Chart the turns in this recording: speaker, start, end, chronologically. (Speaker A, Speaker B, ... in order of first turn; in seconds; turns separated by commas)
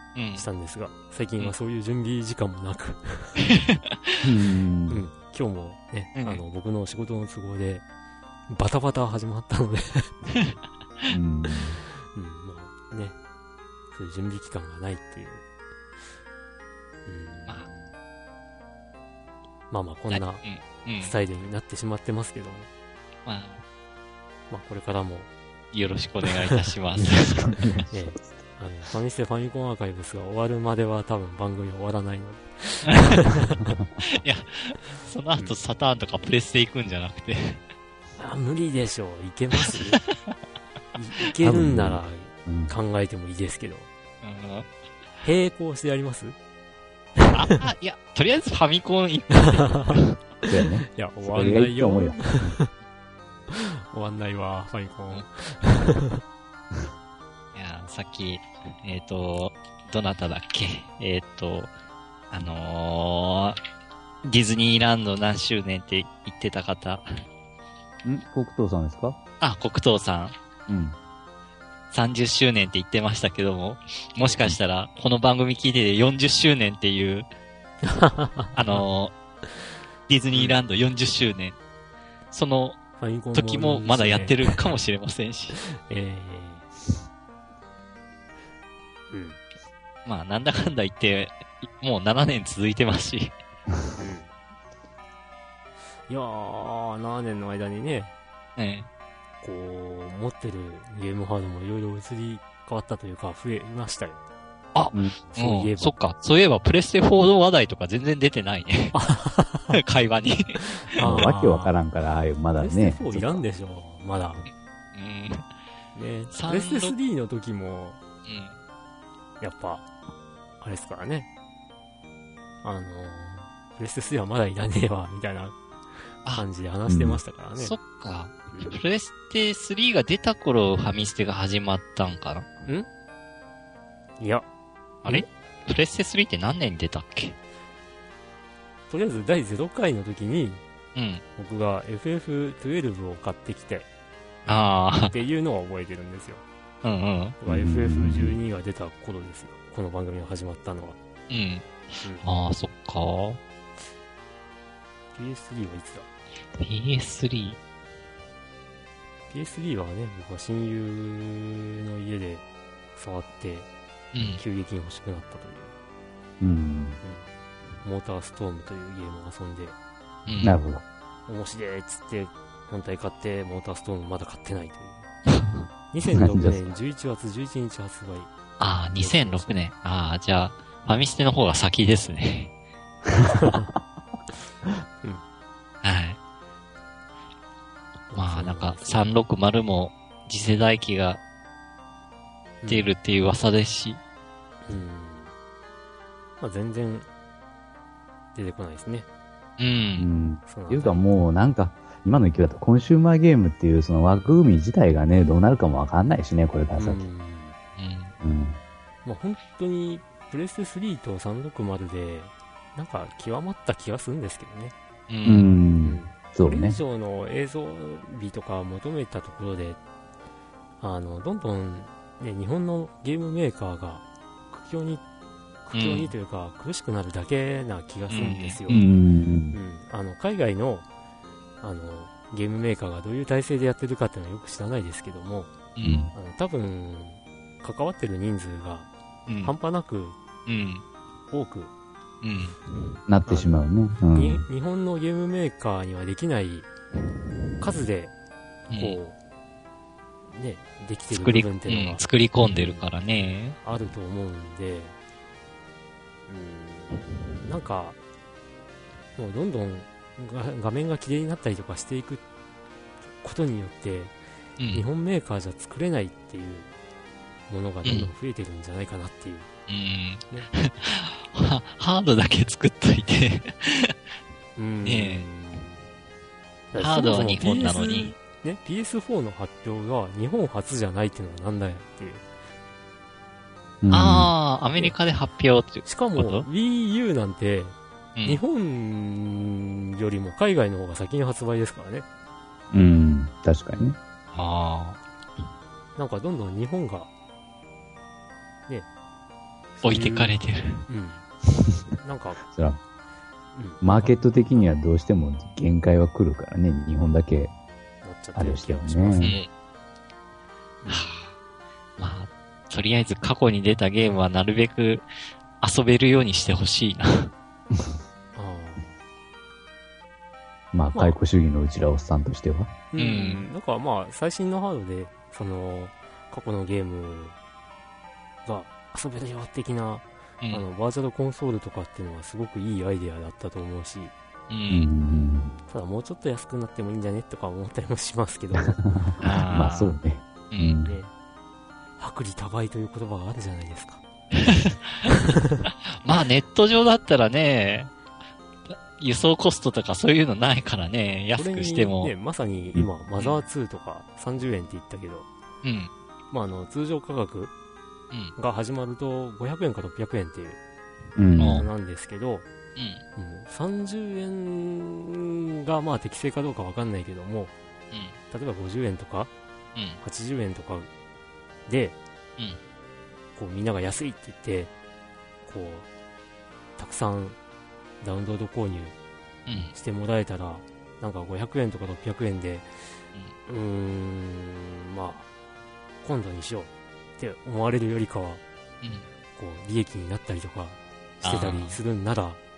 Speaker A: 0.1-0.5, Speaker B: 0.3-3.4, Speaker A: 3.5-4.2, Speaker C: 4.2-5.0, Speaker B: 4.9-7.8, Speaker A: 6.2-6.4, Speaker B: 8.5-10.1, Speaker C: 11.1-11.8, Speaker B: 12.1-13.2, Speaker B: 13.9-15.4, Speaker B: 17.1-17.9, Speaker B: 19.7-20.4, Speaker A: 20.1-21.1, Speaker B: 21.0-22.7, Speaker A: 23.3-23.6, Speaker B: 24.5-25.3, Speaker A: 25.7-27.5, Speaker C: 27.0-28.2, Speaker B: 27.9-33.8, Speaker A: 34.0-37.6, Speaker B: 38.2-40.0, Speaker B: 41.0-43.9, Speaker C: 41.4-42.8, Speaker A: 44.2-44.7, Speaker B: 45.2-46.4, Speaker B: 47.2-47.6, Speaker A: 47.3-50.0, Speaker B: 49.4-50.0, Speaker C: 50.5-52.5, Speaker B: 50.9-52.7, Speaker B: 53.5-56.2, Speaker A: 57.5-61.7, Speaker A: 62.3-63.6, Speaker A: 64.2-67.0, Speaker C: 68.0-69.2, Speaker A: 69.4-70.3, Speaker C: 70.7-71.0, Speaker A: 71.9-77.3, Speaker B: 77.8-78.8, Speaker A: 78.5-79.2, Speaker A: 80.1-81.6, Speaker A: 82.3-85.6, Speaker B: 83.0-84.6, Speaker B: 85.6-86.7, Speaker B: 89.1-89.4, Speaker A: 90.0-93.3, Speaker B: 94.0-94.3, Speaker B: 96.1-98.1, Speaker A: 98.6-98.9, Speaker B: 99.4-104.2, Speaker A: 104.8-109.0, Speaker B: 105.3-106.0, Speaker B: 108.9-109.8, Speaker A: 109.7-111.0, Speaker B: 110.9-111.7, Speaker C: 111.0-113.4, Speaker B: 112.6-114.5, Speaker A: 115.0-115.5, Speaker B: 116.0-118.0, Speaker A: 116.3-117.0, Speaker A: 118.2-118.6, Speaker B: 119.4-119.9, Speaker B: 120.6-121.3, Speaker B: 122.6-125.6, Speaker B: 126.2-127.8, Speaker C: 126.9-127.2, Speaker A: 127.6-132.5, Speaker B: 128.5-128.8, Speaker B: 134.2-134.5, Speaker A: 135.0-137.3, Speaker B: 138.9-140.6, Speaker A: 140.9-141.2, Speaker B: 141.4-143.9, Speaker A: 144.5-145.1, Speaker B: 145.1-146.4, Speaker A: 146.8-147.4, Speaker B: 147.4-151.0, Speaker C: 147.5-148.4, Speaker A: 151.3-153.4, Speaker B: 155.1-156.1, Speaker A: 156.6-157.6, Speaker B: 159.3-162.4, Speaker B: 163.0-163.7, Speaker A: 164.1-164.4, Speaker B: 164.4-165.7, Speaker C: 166.4-167.0, Speaker B: 167.0-167.3, Speaker B: 167.8-169.8, Speaker A: 170.3-170.6, Speaker C: 170.4-170.8, Speaker B: 171.3-175.1, Speaker A: 175.3-175.7, Speaker B: 175.9-178.3, Speaker C: 176.2-176.7, Speaker A: 178.6-182.5, Speaker B: 178.9-179.5, Speaker C: 183.1-183.3, Speaker B: 183.3-183.7, Speaker A: 185.8-186.2, Speaker B: 188.1-189.0, Speaker A: 188.2-191.2, Speaker B: 192.6-192.9, Speaker A: 192.7-194.0, Speaker B: 194.7-195.3, Speaker B: 196.4-197.1, Speaker B: 198.3-199.1, Speaker A: 199.6-200.1, Speaker C: 200.0-207.1, Speaker B: 200.5-201.0, Speaker B: 206.8-207.6, Speaker A: 207.8-208.1, Speaker C: 208.2-208.6, Speaker B: 209.1-214.7, Speaker A: 215.1-215.5, Speaker C: 215.2-216.8, Speaker B: 215.8-219.8, Speaker B: 220.8-225.0, Speaker B: 225.7-228.9, Speaker A: 225.7-226.1, Speaker A: 228.1-228.6, Speaker C: 228.7-229.6, Speaker B: 229.5-230.9, Speaker B: 231.6-235.5, Speaker A: 235.8-236.1, Speaker C: 235.8-236.1, Speaker B: 236.1-238.9, Speaker A: 239.3-239.5, Speaker B: 239.4-240.2, Speaker A: 240.5-240.8, Speaker B: 241.3-241.7, Speaker A: 242.2-242.6, Speaker C: 243.1-244.4, Speaker B: 243.2-246.7, Speaker B: 247.6-248.1, Speaker A: 248.7-249.0, Speaker B: 248.7-249.2, Speaker B: 250.3-252.8, Speaker A: 251.1-253.6, Speaker B: 253.6-254.9, Speaker B: 256.3-258.0, Speaker B: 259.2-262.2, Speaker B: 263.2-264.1, Speaker A: 264.6-264.8, Speaker B: 264.7-266.7, Speaker B: 267.5-269.5, Speaker A: 267.8-268.1, Speaker A: 269.7-273.9, Speaker B: 274.6-275.8, Speaker A: 274.8-275.3, Speaker B: 276.7-282.2, Speaker A: 276.8-278.2, Speaker C: 283.8-284.3, Speaker A: 283.9-286.5, Speaker B: 285.9-292.1, Speaker A: 288.2-288.4, Speaker C: 292.7-294.0, Speaker A: 294.3-295.0, Speaker B: 296.0-297.1, Speaker B: 299.8-300.3, Speaker A: 299.8-300.9, Speaker B: 300.9-301.3, Speaker B: 301.9-302.4, Speaker C: 302.4-302.8, Speaker B: 303.6-304.7, Speaker C: 303.8-307.5, Speaker B: 308.0-309.5, Speaker C: 308.4-309.3, Speaker A: 309.2-309.5, Speaker B: 310.8-311.2, Speaker A: 310.9-311.3, Speaker A: 312.0-315.1, Speaker A: 315.6-317.3, Speaker B: 318.4-318.9, Speaker C: 320.7-322.7, Speaker B: 322.9-327.4, Speaker A: 323.0-323.4, Speaker B: 328.5-334.1, Speaker A: 334.5-334.9, Speaker C: 334.7-335.6, Speaker B: 335.7-338.8, Speaker C: 338.6-341.0, Speaker A: 339.2-340.0, Speaker A: 340.5-340.8, Speaker B: 340.8-341.1, Speaker B: 342.0-344.0, Speaker A: 344.4-345.1, Speaker B: 345.1-345.7, Speaker A: 345.9-347.9, Speaker A: 348.7-352.1, Speaker B: 351.4-355.3, Speaker A: 355.6-355.9, Speaker B: 356.3-357.5, Speaker B: 358.4-360.6, Speaker C: 361.2-361.6, Speaker A: 361.4-361.7, Speaker B: 361.5-362.5, Speaker A: 362.8-363.0, Speaker B: 363.2-367.5, Speaker B: 368.3-369.3, Speaker A: 369.8-370.0, Speaker B: 370.0-370.9, Speaker B: 371.7-372.0, Speaker B: 373.4-374.7, Speaker B: 375.4-375.9, Speaker B: 376.8-377.4, Speaker B: 378.0-378.9, Speaker A: 379.5-379.7, Speaker B: 379.7-382.7, Speaker B: 383.5-385.3, Speaker B: 386.0-388.4, Speaker A: 388.8-389.1, Speaker B: 389.4-392.4, Speaker A: 391.2-391.8